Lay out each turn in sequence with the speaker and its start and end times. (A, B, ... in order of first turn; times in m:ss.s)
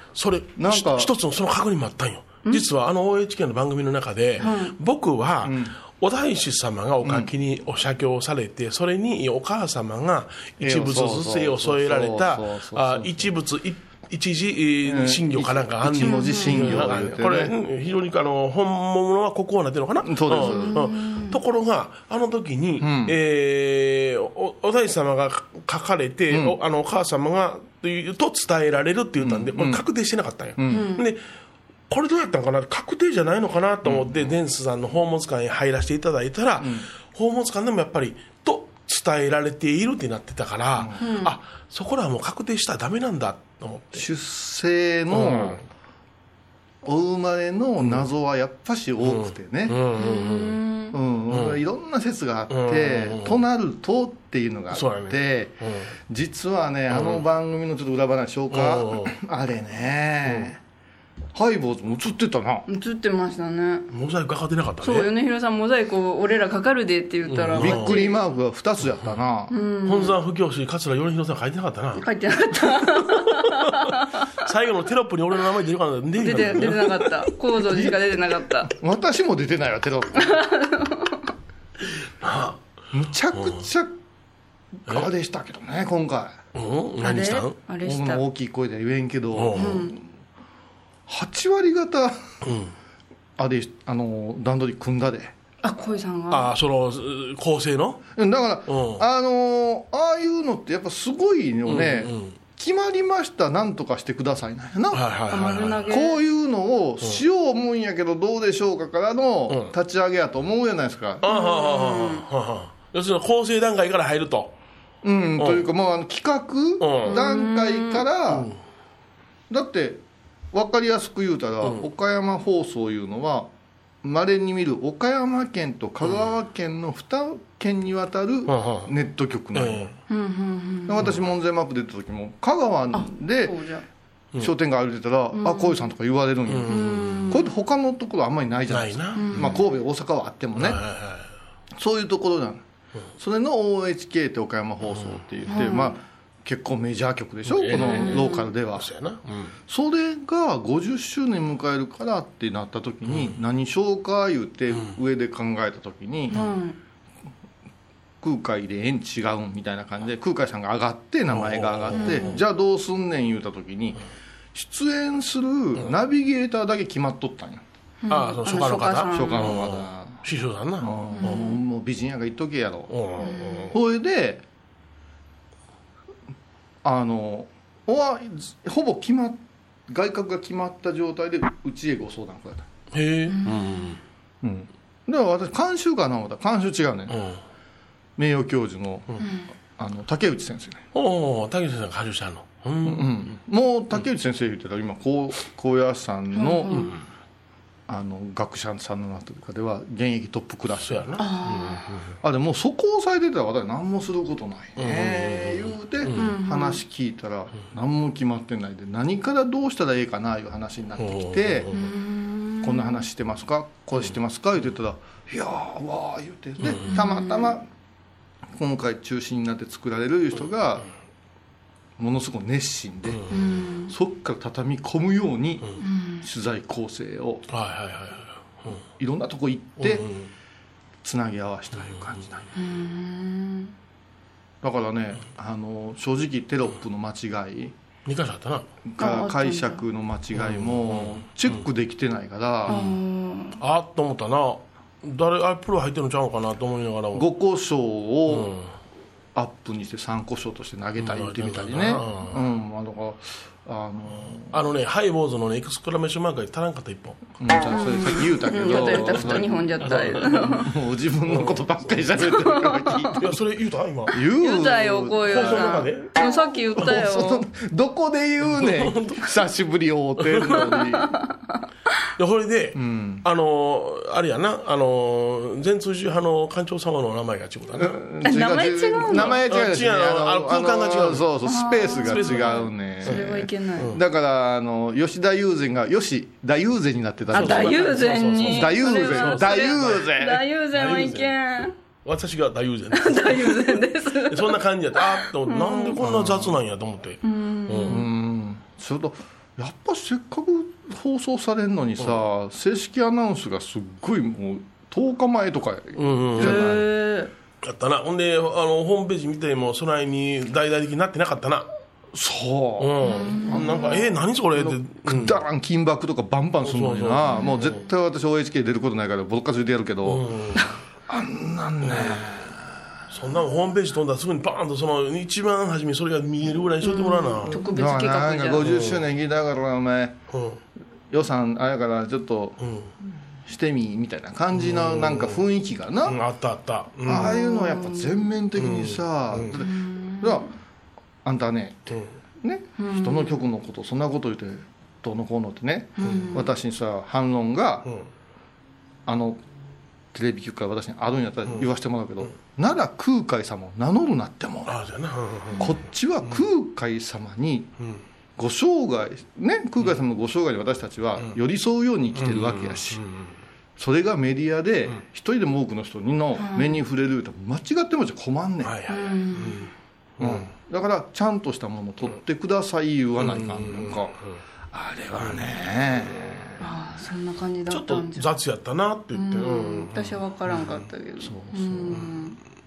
0:00.2-0:31.2 A
0:00.6-0:01.1 B
0:04.4-0:04.7 C
0:05.4-0:05.8 B
0:07.0-0:07.3 B
0:10.6-0:13.3 B
0:14.8-0:17.5 B
0:16.0-0:16.7 C
0:20.0-0:20.9 B
0:20.3-0:21.4 C
0:22.8-0:23.2 B
0:26.3-0:26.6 B
0:29.2-0:29.8 B
0:30.6-0:31.0 B
0:30.7-0:31.0 C
0:31.9-0:44.1 A
0:33.8-0:34.3 B
0:36.6-0:36.9 B
0:40.8-0:41.0 B
0:41.0-0:41.4 C
0:43.9-0:45.6 B
0:45.1-0:45.6 A
0:46.8-0:49.8 B
0:49.0-0:50.6 A
0:50.0-0:51.0 C
0:50.9-1:00.6 B
0:51.3-0:51.6 A
0:52.5-0:53.4 A
0:54.7-0:55.9 A
0:56.9-0:57.2 A
0:58.5-0:59.1 A
1:01.3-1:02.6 B
1:02.7-1:03.9 C
1:03.9-1:05.1 A
1:04.8-1:08.2 C
1:07.2-1:08.0 A
1:07.6-1:09.6 B
1:09.5-1:10.2 C
1:09.8-1:12.1 A
1:12.0-1:14.1 C
1:13.0-1:17.9 A
1:16.2-1:18.7 C
1:18.6-1:20.4 B
1:20.2-1:21.1 C
1:22.2-1:22.6 A
1:22.9-1:24.0 B
1:23.3-1:23.6 A
1:24.9-1:26.4 B
1:26.6-1:27.6 A
1:27.0-1:28.2 C
1:27.8-1:30.0 B
1:29.3-1:29.9 A
1:29.6-1:29.9 C
1:31.1-1:32.4 B
1:32.4-1:32.7 A
1:33.4-1:35.3 B
1:35.6-1:36.5 C
1:36.3-1:38.0 A
1:38.2-1:45.0 B
1:38.7-1:39.0 A
1:41.7-1:42.4 A
1:44.9-1:45.9 A
1:45.3-1:46.2 C
1:45.9-1:51.3 B
1:49.5-1:49.7 A
1:51.2-1:54.6 A
1:51.3-1:52.3 C
1:55.0-1:58.5 B
1:55.4-1:55.6 A
1:56.8-1:57.2 A
1:57.1-1:58.0 C
1:58.3-1:58.6 A
1:59.5-2:03.5 B
2:01.6-2:01.9 A
2:04.0-2:09.9 B
2:08.5-2:08.9 A
2:09.5-2:10.0 A
2:10.1-2:11.0 C
2:10.9-2:13.6 B
2:12.9-2:13.8 C
2:14.4-2:20.8 B
2:15.3-2:15.9 C
2:16.5-2:17.3 A
2:16.7-2:17.5 C
2:18.7-2:19.6 A
2:19.2-2:19.6 C
2:20.6-2:21.3 A
2:21.8-2:22.6 B
2:23.2-2:28.9 B
2:25.0-2:25.6 A
2:25.5-2:26.0 C
2:27.5-2:29.5 A
2:27.7-2:28.5 C
2:29.7-2:36.5 B
2:33.1-2:33.4 A
2:36.3-2:36.8 C
2:38.2-2:44.0 B
2:41.3-2:42.4 A
2:42.0-2:42.3 C
2:44.5-2:47.6 B
2:48.0-2:49.5 C
2:48.1-2:51.4 A
2:49.1-2:50.2 B
2:50.8-2:53.0 B
2:51.2-2:51.6 C
2:52.9-2:53.8 A
2:53.2-2:53.7 C
2:53.7-2:54.4 B
2:56.8-3:02.7 B
3:02.9-3:04.0 A
3:03.3-3:03.8 C
3:04.4-3:07.2 B
3:07.1-3:07.4 A
3:08.2-3:10.8 B
3:09.2-3:09.5 C
3:10.9-3:13.3 A
3:12.8-3:16.9 B
3:16.3-3:16.9 C
3:16.7-3:17.0 A
3:17.9-3:21.2 B
3:20.8-3:22.1 A
3:21.2-3:21.9 C
3:22.2-3:31.7 B
3:24.8-3:26.4 A
3:26.2-3:26.8 C
3:31.0-3:31.9 A
3:31.7-3:33.1 C
3:32.6-3:37.7 B
3:36.6-3:37.0 A
3:36.7-3:37.6 C
3:38.6-3:40.9 B
3:42.0-3:43.2 B
3:43.1-3:43.4 A
3:43.3-3:43.9 C
3:43.8-3:47.4 B
3:45.8-3:46.3 C
3:47.5-3:48.8 A
3:48.9-3:50.1 B
3:49.8-3:50.3 A
3:51.0-3:52.5 B
3:51.7-3:52.2 A
3:52.6-3:53.7 C
3:54.6-3:57.8 B
3:58.1-3:58.7 A
3:58.9-4:02.8 B
3:59.0-3:59.8 C
4:00.4-4:01.6 A
4:02.7-4:03.0 A
4:02.7-4:03.6 C
4:03.6-4:07.3 A
4:07.1-4:08.5 B
4:08.3-4:08.7 A
4:09.4-4:14.6 B
4:11.0-4:12.4 A
4:14.5-4:17.2 A
4:17.4-4:23.3 B
4:17.7-4:20.7 C
4:18.7-4:20.7 A
4:21.3-4:22.2 A
4:22.6-4:23.1 C
4:23.2-4:24.2 A
4:24.1-4:25.8 B
4:24.4-4:27.4 C
4:25.2-4:26.1 A
4:26.8-4:31.2 B
4:28.5-4:29.3 A
4:30.2-4:30.7 A
4:32.2-4:38.0 A
4:32.7-4:33.2 B
4:37.8-4:50.4 B
4:38.2-4:39.4 C
4:39.1-4:41.3 A
4:41.4-4:43.9 C
4:42.0-4:44.0 A
4:47.3-4:50.2 A
4:47.3-4:51.8 C
4:50.7-4:51.4 A
4:52.0-4:58.0 A
4:53.0-4:56.0 C
4:56.0-4:56.6 B
4:57.2-4:58.1 C
4:57.9-5:06.9 B
5:06.0-5:06.8 A
5:06.4-5:07.3 C
5:07.6-5:11.7 A
5:12.1-5:20.2 B
5:12.8-5:15.4 A
5:13.0-5:13.9 C
5:16.6-5:17.8 A
5:20.0-5:20.8 A
5:21.1-5:23.1 B
5:21.8-5:22.3 A
5:23.1-5:27.6 A
5:26.8-5:28.7 C
5:27.5-5:30.2 B
5:28.6-5:29.0 A
5:30.3-5:30.6 A
5:31.1-5:32.6 B
5:32.6-5:32.9 A
5:33.4-5:36.2 B
5:34.5-5:35.4 A
5:36.0-5:37.4 A
5:37.1-5:40.5 B
5:37.1-5:38.3 C
5:38.6-5:39.6 A
5:39.6-5:40.5 C
5:41.2-5:47.9 B
5:42.8-5:43.4 C
5:46.0-5:46.5 C
5:46.0-5:46.4 A
5:49.1-5:49.4 B
5:50.1-5:54.8 B
5:54.7-5:55.7 A
5:55.6-5:57.7 B
5:58.4-6:03.0 B
6:02.2-6:03.3 A
6:03.8-6:08.7 B
6:06.4-6:06.8 C
6:08.6-6:10.5 A
6:08.9-6:09.7 C
6:10.2-6:14.2 B
6:13.2-6:14.4 A
6:14.7-6:16.6 B
6:15.2-6:15.4 A
6:16.0-6:16.5 A
6:16.6-6:18.3 C
6:17.7-6:20.9 A
6:19.1-6:22.4 C
6:21.2-6:22.1 B